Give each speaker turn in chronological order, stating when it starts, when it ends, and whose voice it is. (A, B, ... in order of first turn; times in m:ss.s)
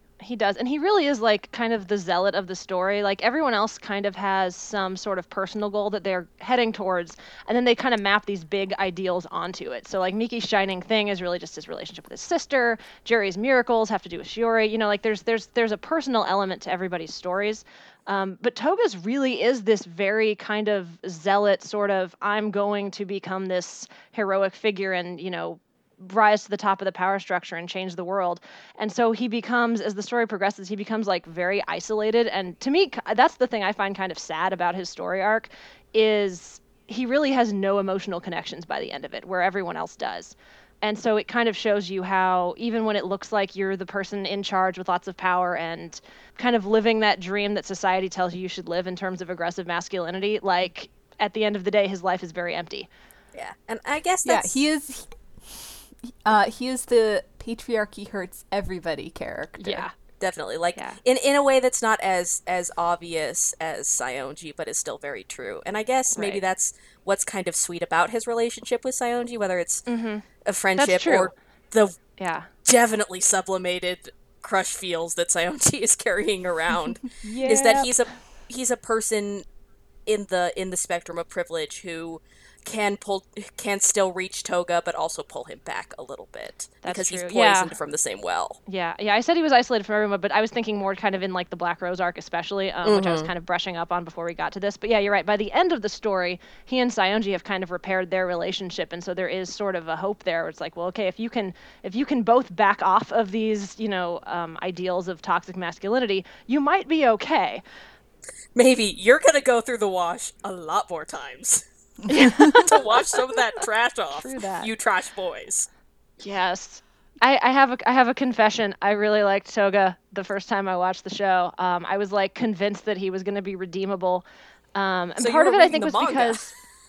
0:00.2-0:52.9 A
0:53.3-0:54.6 B
0:54.2-0:59.9 C
0:59.6-0:59.9 A
1:00.2-1:09.9 B
1:06.1-1:06.4 A
1:09.9-1:10.2 A
1:10.4-1:12.0 B
1:10.8-1:11.3 A
1:12.2-1:12.5 A
1:12.6-1:19.4 B
1:17.2-1:17.9 C
1:20.1-1:28.6 B
1:26.8-1:27.7 A
1:28.7-1:47.6 A
1:32.8-1:33.3 B
1:48.6-1:51.6 B
1:52.0-1:52.7 C
1:52.1-1:52.8 A
1:52.4-1:55.7 B
1:54.1-1:54.7 A
1:56.2-2:06.4 A
2:05.2-2:06.6 B